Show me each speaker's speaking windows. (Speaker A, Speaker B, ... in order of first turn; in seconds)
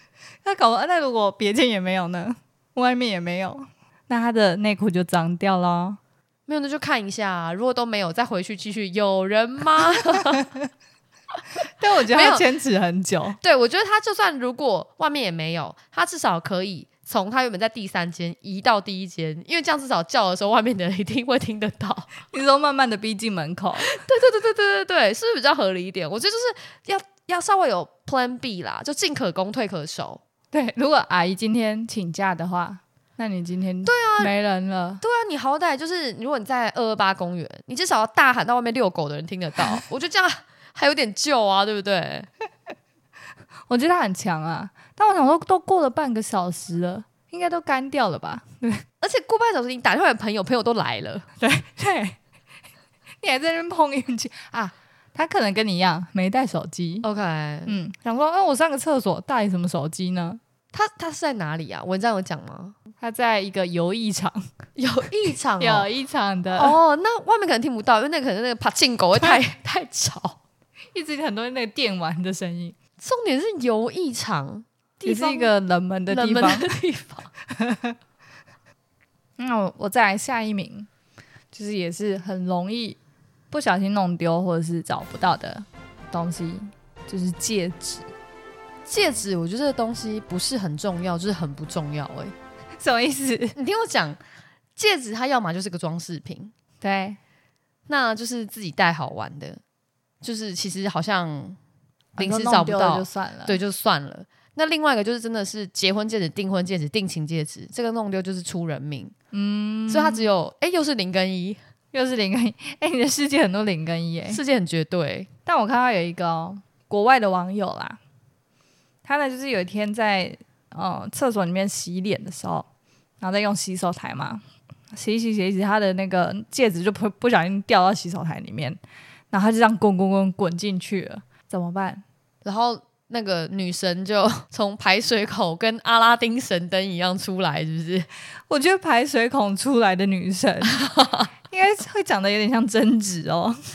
Speaker A: 0.4-6.0, 11.8-13.4, 22.3-24.0, 30.5-35.0, 43.7-48.8, 51.4-52.2, 53.2-57.0, 57.7-60.4, 63.0-64.5, 65.6-66.8, 70.9-72.8, 75.0-76.7, 77.5-78.0, 79.4-80.9, 81.5-83.0, 83.5-88.1, 92.8-93.5, 96.8-97.2, 102.2-103.6, 109.3-110.3, 111.9-114.4, 115.5-118.0, 119.0-122.7, 123.2-124.4, 124.9-128.8, 129.3-132.0, 138.5-140.8, 141.5-143.6
Speaker B: 6.5-10.5, 12.1-12.4, 13.4-22.1, 23.8-30.2, 33.8-34.3, 35.0-42.3, 49.0-51.3, 57.0-57.8, 60.7-62.8, 64.8-65.9, 66.5-70.4, 73.0-75.5, 76.1-77.3, 88.9-92.3, 93.5-94.2, 94.8-96.5, 97.9-99.6, 100.2-101.6, 102.2-109.1, 109.9-111.6, 114.3-115.3, 132.4-138.1, 140.8-141.3